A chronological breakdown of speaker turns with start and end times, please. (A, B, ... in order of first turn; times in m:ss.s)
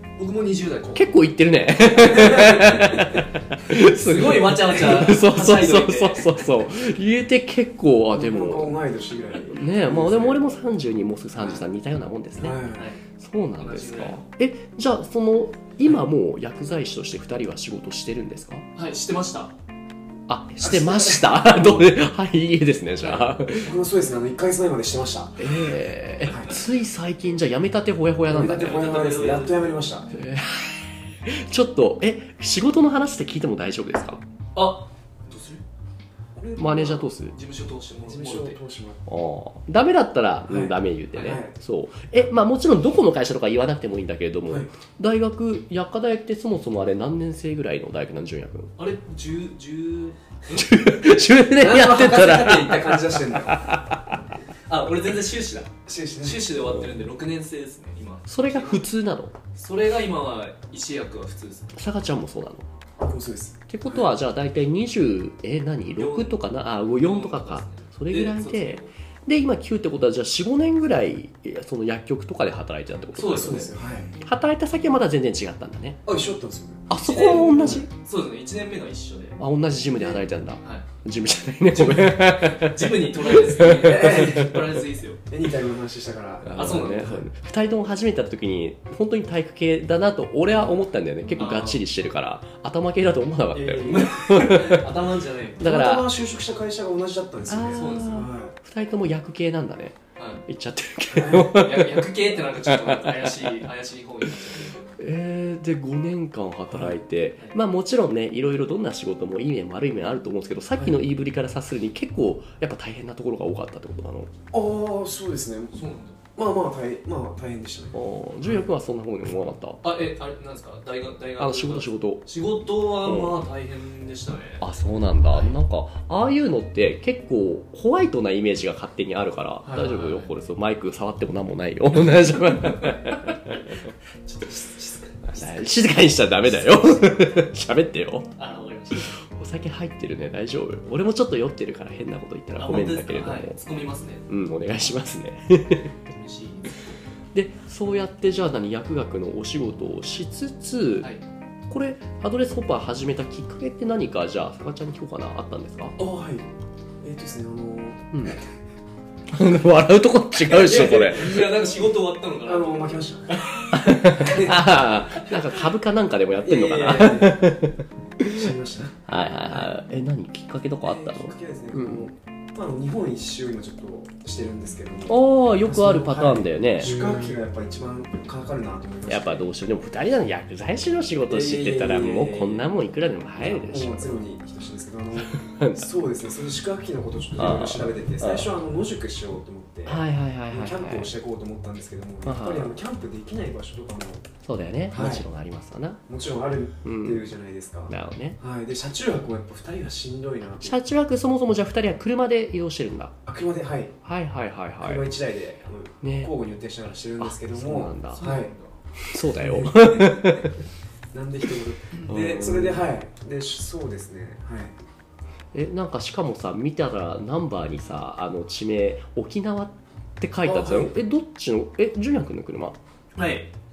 0:00.2-0:01.2 A
0:00.9-0:08.8 B
0:01.7-0:06.5 A
0:08.1-0:10.4 C
0:09.5-0:18.7 B
0:11.4-0:11.7 C
0:12.4-0:12.9 C
0:12.7-0:13.0 A
0:13.6-0:14.2 A
0:18.8-0:19.5 A
0:20.3-0:23.7 B
0:20.6-0:21.8 C
0:23.5-0:25.6 C
0:25.4-0:28.8 B
0:26.3-0:26.5 C
0:28.3-0:30.1 C
0:28.5-0:29.6 A
0:30.1-0:34.2 B
0:34.6-0:35.6 A
0:36.4-0:37.1 C
0:36.6-0:37.4 B
0:37.3-0:38.6 A
0:38.1-0:39.1 C
0:39.1-0:48.7 B
0:40.5-0:41.6 C
0:48.8-0:51.0 A
0:50.6-0:54.2 B
0:51.5-0:53.8 C
0:54.7-0:58.9 A
0:55.9-0:56.6 C
0:58.3-0:59.4 B
0:59.6-1:01.8 A
1:01.8-1:02.7 B
1:03.0-1:04.1 C
1:03.7-1:13.7 B
1:06.0-1:06.4 A
1:07.0-1:08.9 A
1:13.2-1:13.7 A
1:13.3-1:14.1 C
1:14.2-1:16.0 B
1:16.0-1:17.8 C
1:16.9-1:17.9 B
1:16.9-1:19.4 A
1:19.4-1:24.5 B
1:20.0-1:20.4 C
1:21.7-1:25.2 A
1:23.7-1:24.6 C
1:25.3-1:27.0 C
1:26.4-1:34.9 B
1:26.6-1:27.3 A
1:31.4-1:31.8 A
1:33.5-1:34.9 C
1:33.9-1:35.6 A
1:35.6-1:38.6 C
1:35.6-1:36.1 B
1:37.5-1:43.7 B
1:37.7-1:38.3 A
1:40.2-1:40.4 A
1:41.1-1:41.6 C
1:41.5-1:44.9 A
1:45.0-1:54.3 B
1:54.5-1:55.7 C
1:55.7-1:56.2 A
1:56.4-1:58.0 C
1:57.9-1:59.8 B
1:59.8-2:04.6 A
2:01.4-2:02.2 B
2:03.0-2:03.4 B
2:04.6-2:13.8 B
2:09.6-2:10.3 A
2:14.3-2:15.4 A
2:15.3-2:18.3 B
2:15.3-2:15.7 C
2:18.4-2:19.2 A
2:19.0-2:23.6 B
2:22.6-2:24.3 A
2:24.3-2:25.9 B
2:26.1-2:27.0 A
2:27.3-2:31.1 B
2:31.7-2:36.0 B
2:36.0-2:36.5 C
2:37.0-2:38.4 C
2:39.3-2:41.4 B
2:40.4-2:43.1 A
2:40.6-2:41.6 C
2:42.4-2:45.4 C
2:43.7-2:48.5 B
2:46.4-2:47.5 C
2:48.2-2:49.8 C
2:49.1-2:52.1 B
2:50.8-2:59.5 C
2:55.1-2:57.0 B
2:59.1-3:04.2 B
3:01.3-3:02.7 C
3:03.4-3:14.3 C
3:05.3-3:05.9 B
3:07.4-3:08.5 B
3:09.9-3:11.2 B
3:12.2-3:12.8 B
3:14.4-3:16.0 B
3:14.9-3:15.2 C
3:16.1-3:20.8 C
3:16.8-3:17.2 B
3:17.9-3:18.4 B
3:20.4-3:23.1 B
3:23.2-3:24.0 C
3:24.0-3:25.1 B
3:24.8-3:28.5 C
3:26.0-3:26.3 B
3:27.2-3:28.3 B
3:28.1-3:28.7 A
3:29.0-3:30.6 B
3:29.4-3:30.5 C
3:31.1-3:34.8 C
3:32.1-3:32.9 B
3:35.5-3:42.8 B
3:40.4-3:40.9 C
3:43.2-3:43.5 A